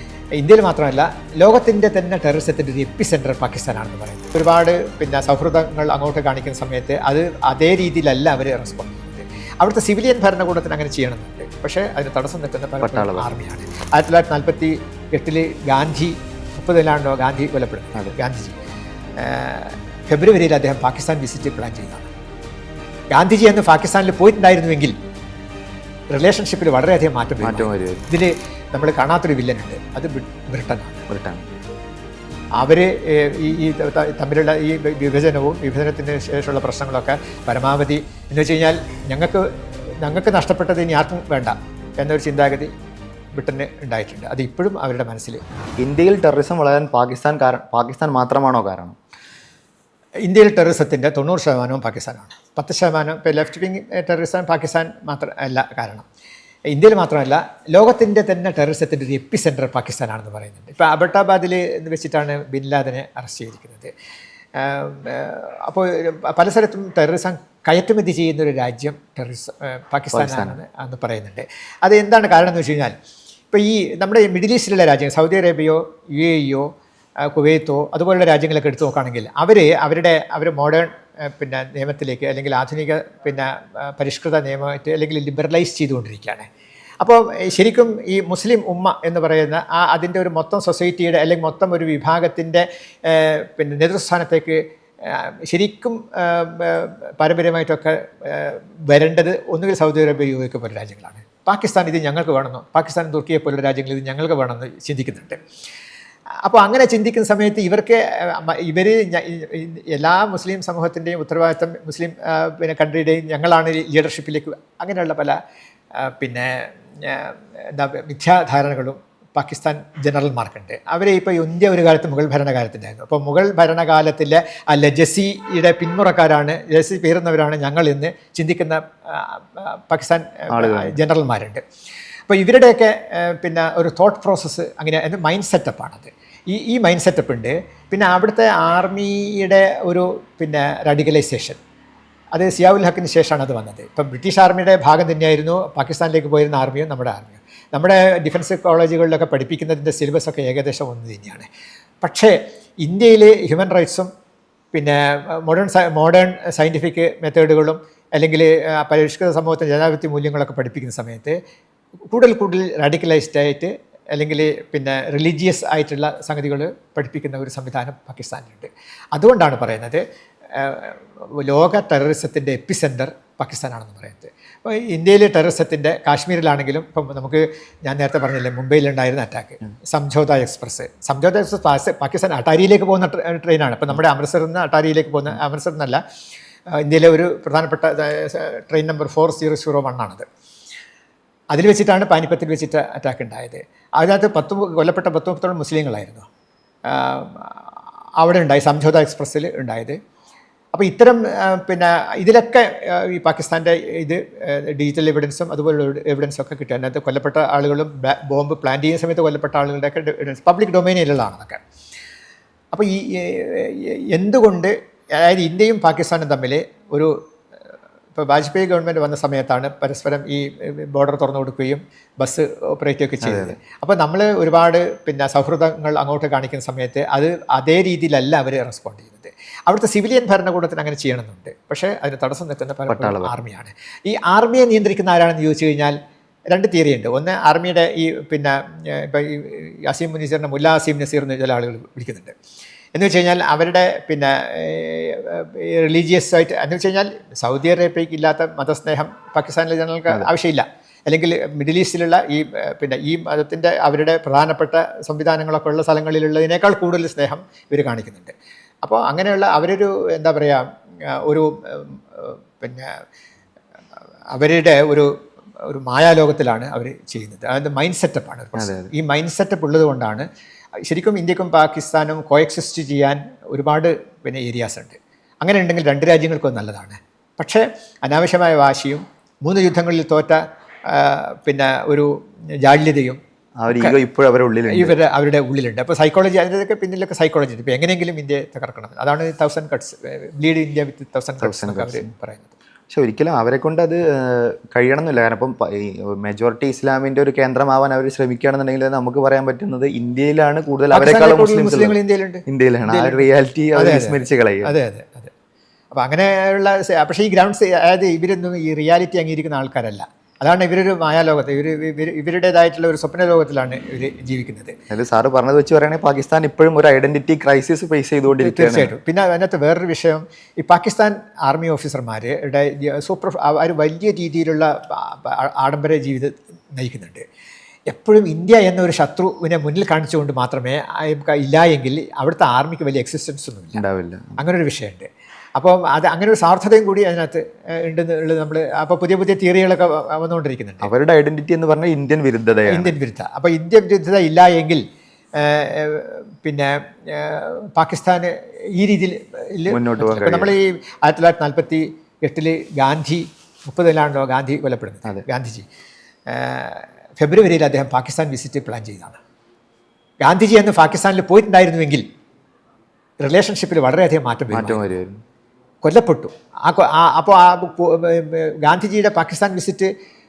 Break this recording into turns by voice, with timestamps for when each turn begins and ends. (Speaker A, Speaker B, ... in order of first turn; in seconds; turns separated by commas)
Speaker A: 0.4-18.6, Speaker B: 12.8-13.3, Speaker A: 19.2-22.1, Speaker A: 23.1-24.9, Speaker A: 26.1-31.1, Speaker B: 27.4-28.0, Speaker B: 31.1-31.4, Speaker A: 32.6-42.7, Speaker A: 43.4-45.4, Speaker B: 45.8-49.0, Speaker A: 50.2-56.0, Speaker A: 56.7-63.9, Speaker A: 64.6-72.9, Speaker B: 70.1-70.6, Speaker A: 73.5-76.7, Speaker A: 77.3-86.5, Speaker A: 87.0-105.4, Speaker A: 106.4-115.4, Speaker A: 116.0-131.6, Speaker B: 130.5-130.9, Speaker A: 132.3-141.6, Speaker A: 142.3-151.5, Speaker A: 152.0-154.1, Speaker A: 154.7-161.4, Speaker A: 162.1-186.0, Speaker A: 186.7-190.2, Speaker A: 191.5-196.2, Speaker A: 196.9-200.0, Speaker A: 200.7-211.6, Speaker A: 212.7-217.1, Speaker A: 218.1-235.9, Speaker B: 223.2-223.6, Speaker B: 232.9-233.3, Speaker A: 236.5-242.3, Speaker A: 242.9-262.9, Speaker A: 264.3-265.1, Speaker A: 265.6-270.2, Speaker B: 268.6-268.9, Speaker A: 270.8-282.1, Speaker A: 282.6-284.0, Speaker B: 283.6-285.0, Speaker A: 284.7-292.6, Speaker B: 291.4-292.1, Speaker B: 292.9-301.9, Speaker A: 300.9-303.2, Speaker B: 302.5-304.7, Speaker A: 303.8-305.3, Speaker A: 305.9-314.8, Speaker B: 314.9-318.9, Speaker A: 318.3-327.2, Speaker A: 327.9-333.8, Speaker B: 333.8-334.4, Speaker A: 334.4-340.9, Speaker B: 340.8-342.9, Speaker A: 342.7-344.8, Speaker A: 345.3-355.6, Speaker B: 349.7-350.5, Speaker A: 356.3-359.2, Speaker A: 360.2-362.1, Speaker A: 363.2-364.9, Speaker B: 364.5-365.2, Speaker A: 365.8-369.9